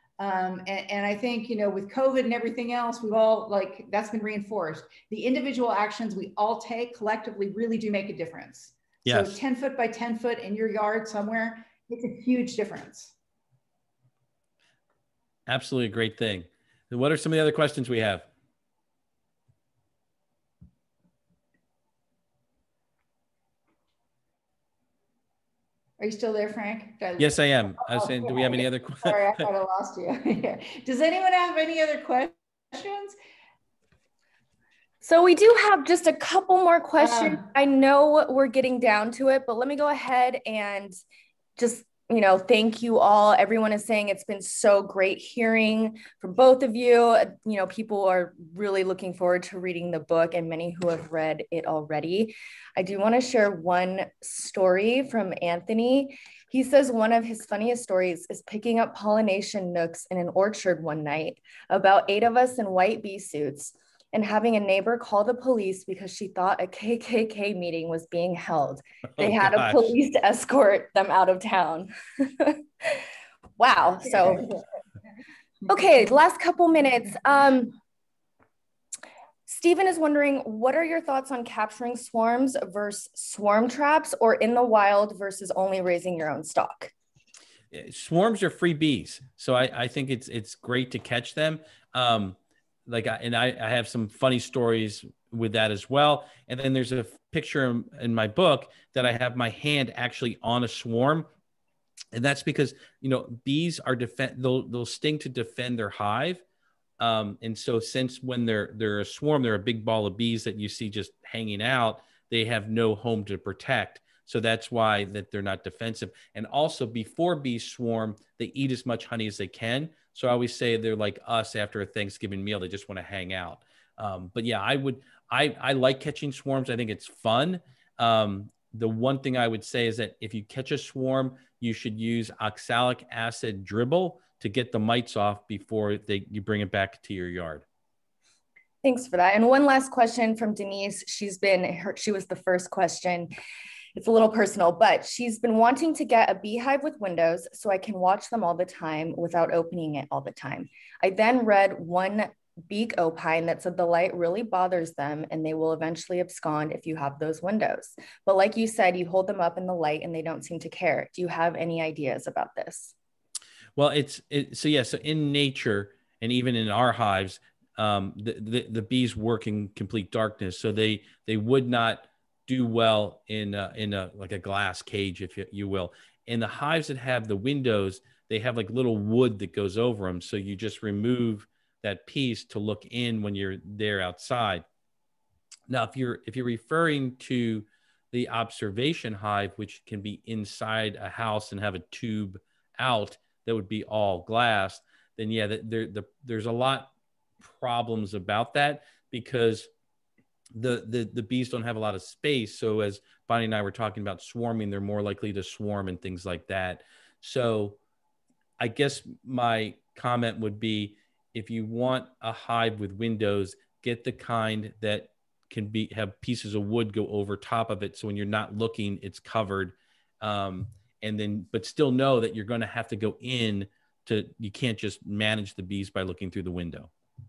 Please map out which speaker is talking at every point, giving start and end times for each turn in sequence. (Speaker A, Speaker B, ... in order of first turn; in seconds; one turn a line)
Speaker A: 0.2-13.2
Speaker B: 9.1-9.4
Speaker B: 15.5-18.3
Speaker A: 26.0-33.2
Speaker B: 27.2-29.5
Speaker C: 35.0-41.0
Speaker A: 37.0-37.5
Speaker C: 41.6-73.0
Speaker B: 69.2-69.9
Speaker C: 73.6-74.5
Speaker C: 75.7-77.8
Speaker C: 79.5-86.9
Speaker B: 87.7-101.3
Speaker B: 102.1-106.4
Speaker B: 107.0-137.7
Speaker C: 138.8-143.3
Speaker C: 143.9-162.9
Speaker B: 163.8-184.7
Speaker B: 185.7-196.9
Speaker B: 197.4-199.7
Speaker B: 200.6-207.8
Speaker B: 208.6-226.9